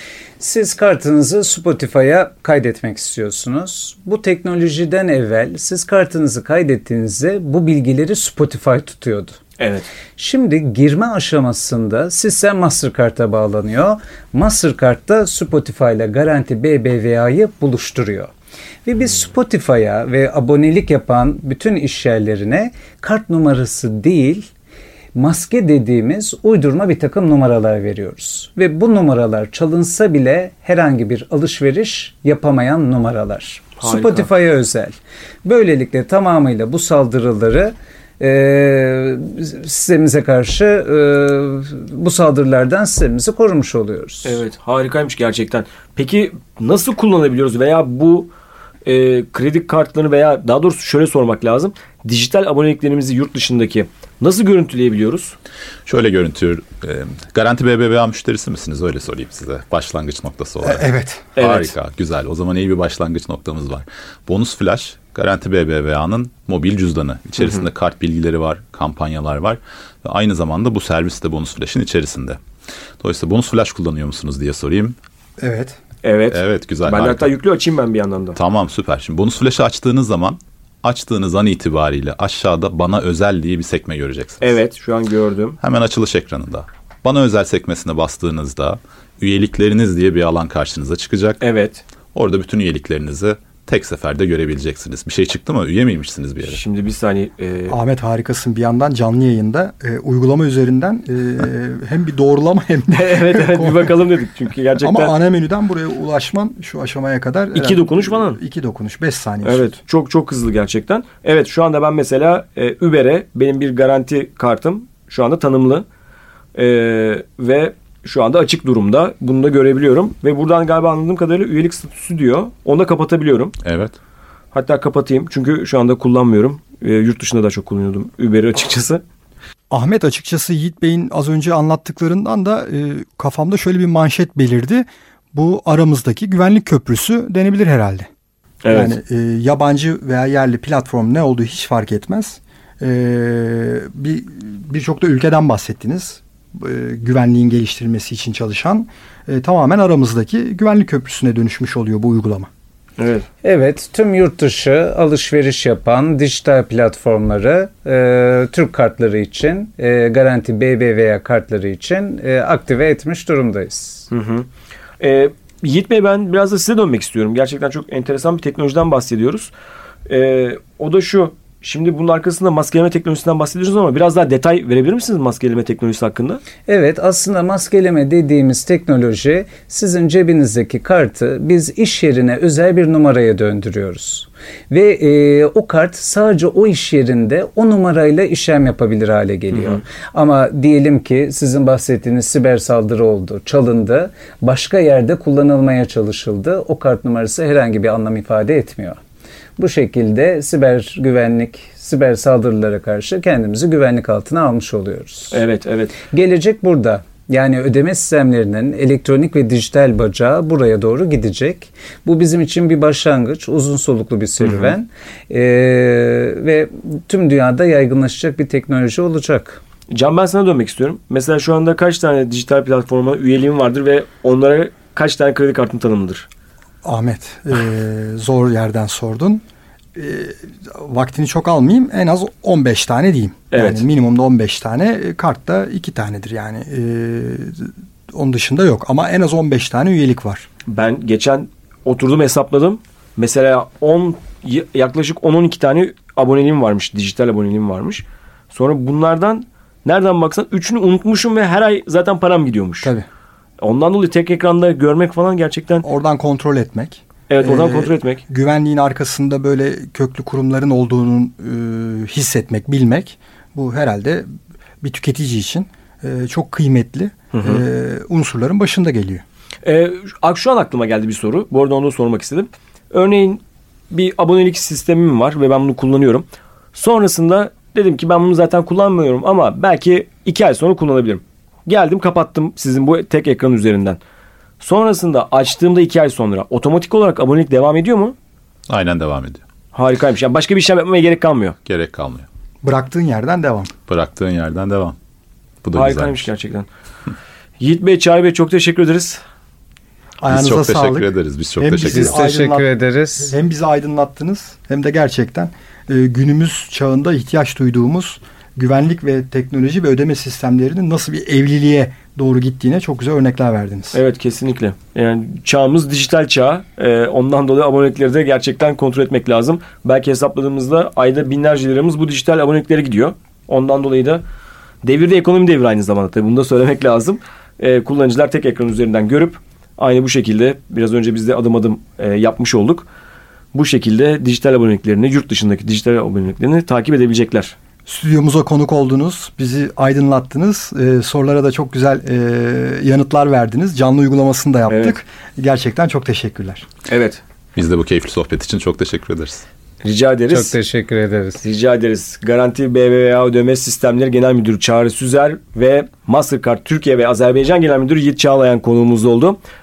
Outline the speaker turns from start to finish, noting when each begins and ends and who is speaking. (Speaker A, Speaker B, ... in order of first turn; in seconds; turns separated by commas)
Speaker A: 0.4-9.4, Speaker B: 9.6-9.9, Speaker A: 10.2-18.3, Speaker A: 18.8-24.5, Speaker A: 25.1-44.4, Speaker B: 33.8-34.3, Speaker B: 44.2-48.3, Speaker B: 48.9-55.4, Speaker C: 55.9-72.4, Speaker D: 60.6-61.3, Speaker B: 61.4-61.7, Speaker B: 67.4-67.6, Speaker C: 73.0-75.0, Speaker D: 75.4-75.8, Speaker B: 76.0-78.4, Speaker C: 76.3-77.3, Speaker C: 78.3-84.5, Speaker B: 84.4-85.6, Speaker C: 85.6-91.4, Speaker B: 91.4-91.8, Speaker C: 92.1-96.6, Speaker B: 96.5-97.8, Speaker D: 97.7-103.9, Speaker B: 102.9-105.1, Speaker D: 104.8-109.7, Speaker B: 107.5-108.4, Speaker B: 109.4-115.8, Speaker B: 116.5-123.5, Speaker C: 123.6-123.9, Speaker B: 124.5-129.0, Speaker D: 129.7-138.1, Speaker B: 138.6-139.0, Speaker D: 138.7-152.5, Speaker B: 153.0-153.3, Speaker A: 153.4-164.1, Speaker B: 164.1-164.5, Speaker B: 165.0-169.5, Speaker B: 170.1-176.4, Speaker A: 176.6-199.0, Speaker B: 189.5-189.8, Speaker A: 199.6-205.4, Speaker B: 205.3-205.9, Speaker A: 206.0-219.6, Speaker B: 214.4-214.7, Speaker B: 219.9-226.3, Speaker D: 226.8-229.4, Speaker D: 229.9-240.5, Speaker B: 233.5-233.8, Speaker B: 240.7-252.9, Speaker B: 253.6-255.8, Speaker D: 255.8-264.3, Speaker B: 257.3-258.2, Speaker D: 264.8-269.2, Speaker B: 267.3-267.6, Speaker B: 269.6-284.0, Speaker B: 284.6-288.1, Speaker C: 288.7-289.4, Speaker B: 289.7-291.6, Speaker C: 291.6-292.3, Speaker D: 292.6-293.7, Speaker C: 293.9-294.9, Speaker C: 295.6-296.3, Speaker B: 295.7-296.7, Speaker B: 297.6-299.2, Speaker D: 300.2-314.0, Speaker C: 300.3-302.2, Speaker A: 301.9-303.3, Speaker B: 313.9-324.2, Speaker B: 324.8-332.9, Speaker B: 333.5-337.5, Speaker D: 337.9-346.7, Speaker B: 344.7-344.9, Speaker B: 346.9-347.2, Speaker C: 347.5-349.4, Speaker B: 349.8-350.6, Speaker A: 350.3-351.4, Speaker B: 351.4-359.4